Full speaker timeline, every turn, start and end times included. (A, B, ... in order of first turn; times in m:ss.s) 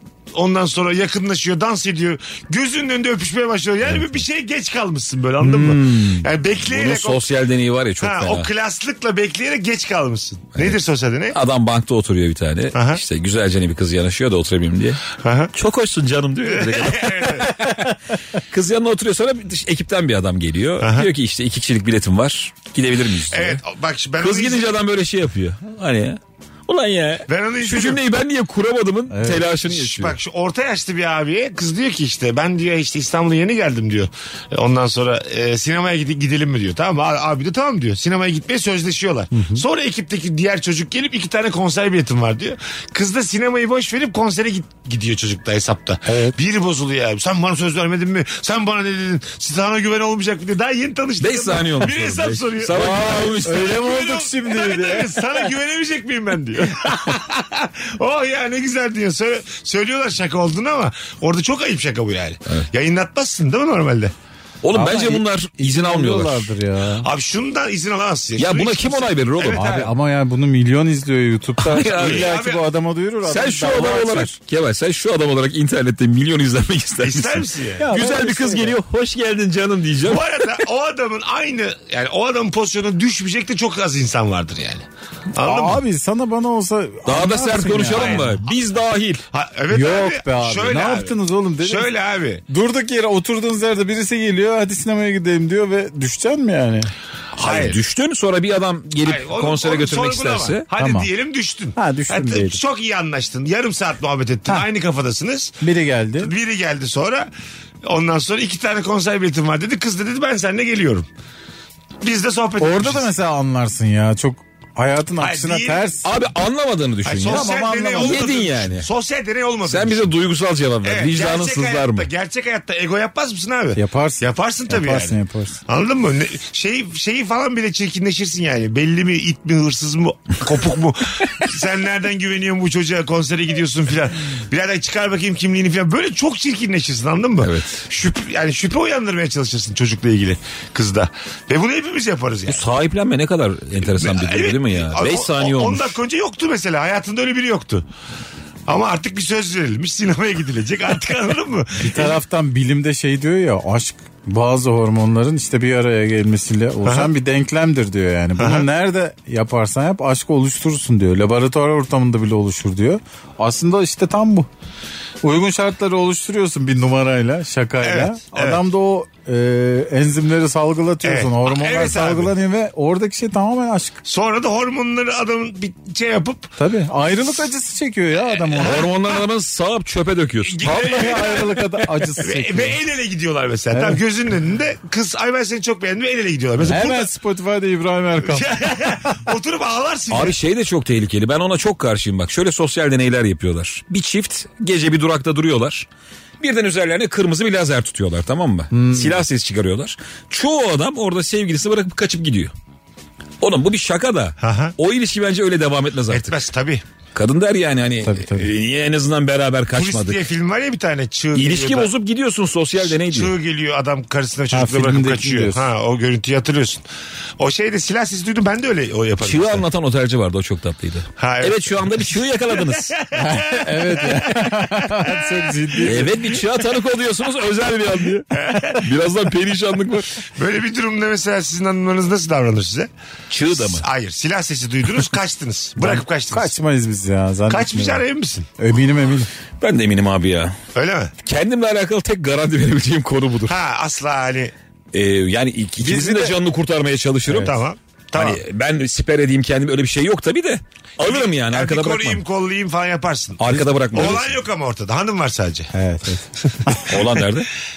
0:00.3-0:07.2 A
0:05.4-0:08.5 B
0:08.0-0:11.4 A
0:11.3-0:23.6 B
0:12.7-0:13.0 A
0:15.2-0:15.5 A
0:16.4-0:17.5 A
0:20.8-0:21.1 A
0:23.3-0:24.7 A
0:24.2-0:30.2 B
0:27.3-0:28.0 A
0:29.1-0:29.5 C
0:29.6-1:04.1 A
0:39.3-0:39.6 C
0:51.2-0:53.8 B
0:52.7-0:55.4 C
1:04.6-1:06.5 B
1:04.7-1:07.1 C
1:07.0-1:09.9 A
1:08.4-1:09.8 B
1:09.5-1:14.3 C
1:11.6-1:12.3 B
1:11.9-1:12.6 A
1:13.2-1:20.3 B
1:17.0-1:17.8 A
1:17.8-1:18.8 C
1:20.0-1:25.8 A
1:25.4-1:28.4 C
1:27.1-1:29.2 B
1:27.9-1:28.4 A
1:29.3-1:32.4 A
1:29.7-1:31.9 C
1:32.5-1:36.9 C
1:37.3-1:40.6 B
1:37.4-1:37.8 A
1:39.0-1:45.6 A
1:40.8-1:41.1 C
1:41.8-1:42.6 C
1:45.6-1:46.3 C
1:46.2-1:47.3 A
1:47.8-1:51.1 A
1:52.0-1:53.1 A
1:52.6-1:56.0 C
1:55.2-1:55.9 A
1:56.0-1:57.5 B
1:57.0-2:00.1 A
1:57.3-1:58.2 C
1:58.0-1:58.9 B
1:59.6-2:02.1 B
2:00.8-2:22.6 A
2:03.8-2:05.6 C
2:17.4-2:17.8 B
2:22.5-2:26.0 B
2:23.8-2:27.8 A
2:28.7-2:32.2 A
2:31.8-2:44.5 C
2:36.8-2:37.1 A
2:38.4-2:38.6 A
2:45.2-2:54.0 C
2:47.8-2:48.6 A
2:51.0-2:52.3 A
2:54.0-2:56.6 A
2:56.6-2:58.9 C
2:58.2-2:59.2 A
2:58.6-3:00.8 B
3:00.4-3:07.1 A
3:00.6-3:02.8 C
3:03.7-3:04.0 C
3:06.7-3:09.2 C
3:08.2-3:10.4 A
3:10.1-3:15.9 B
3:16.4-3:22.5 B
3:18.7-3:19.2 C
3:23.4-3:26.3 B
3:24.4-3:24.7 A
3:26.1-3:26.8 A
3:27.1-3:30.2 B
3:28.0-3:28.5 C
3:29.7-3:31.9 A
3:31.3-3:33.3 B
3:32.8-3:36.8 A
3:34.5-3:35.6 C
3:37.4-3:39.6 A
3:39.2-3:43.0 B
3:41.2-3:44.5 A
3:43.1-3:46.4 C
3:45.0-3:46.1 A
3:45.8-3:50.1 B
3:48.3-3:48.8 A
3:50.4-3:52.9 A
3:53.3-3:53.8 B
3:53.5-3:56.5 A
3:55.8-3:58.0 C
3:57.5-3:58.5 A
3:58.6-3:59.3 C
3:59.6-4:00.6 B
4:00.7-4:01.1 A
4:01.2-4:03.6 B
4:03.4-4:04.5 A
4:04.9-4:07.5 B
4:05.8-4:06.4 C
4:07.3-4:08.4 A
4:08.1-4:12.2 B
4:11.0-4:15.7 A
4:13.4-4:14.3 B
4:13.5-4:14.1 C
4:15.7-4:16.9 C
4:16.4-4:17.0 A
4:16.9-4:17.5 B